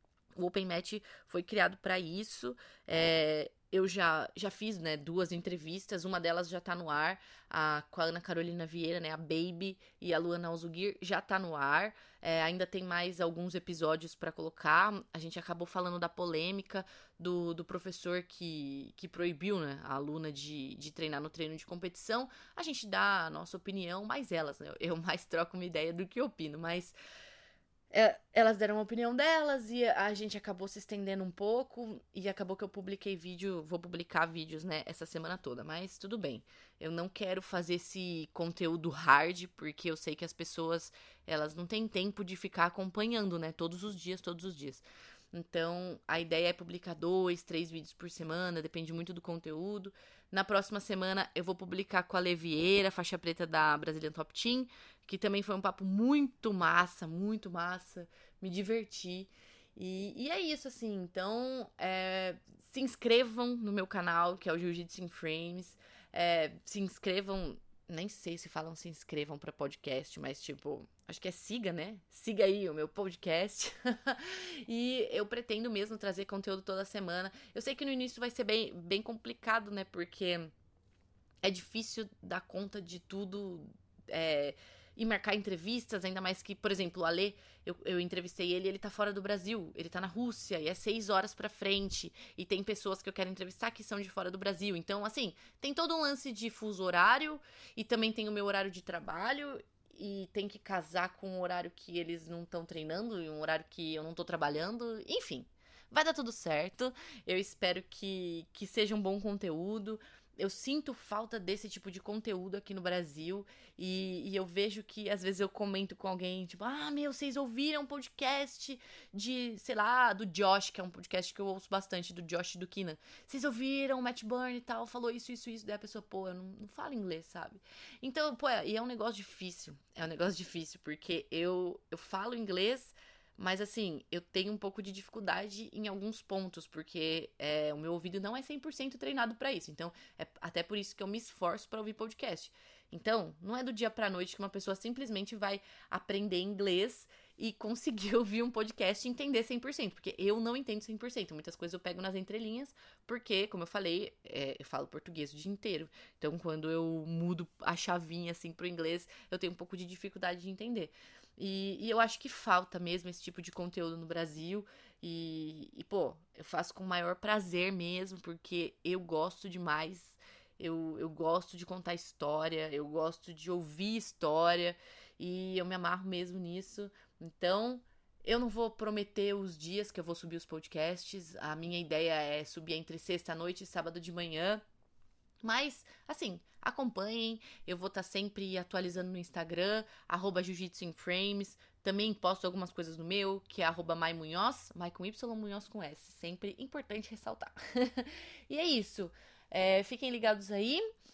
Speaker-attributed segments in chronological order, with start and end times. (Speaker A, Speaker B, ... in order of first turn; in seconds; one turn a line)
Speaker A: 0.3-26.9
Speaker A: 27.9-80.5
Speaker A: 81.4-184.6
Speaker A: 185.4-200.8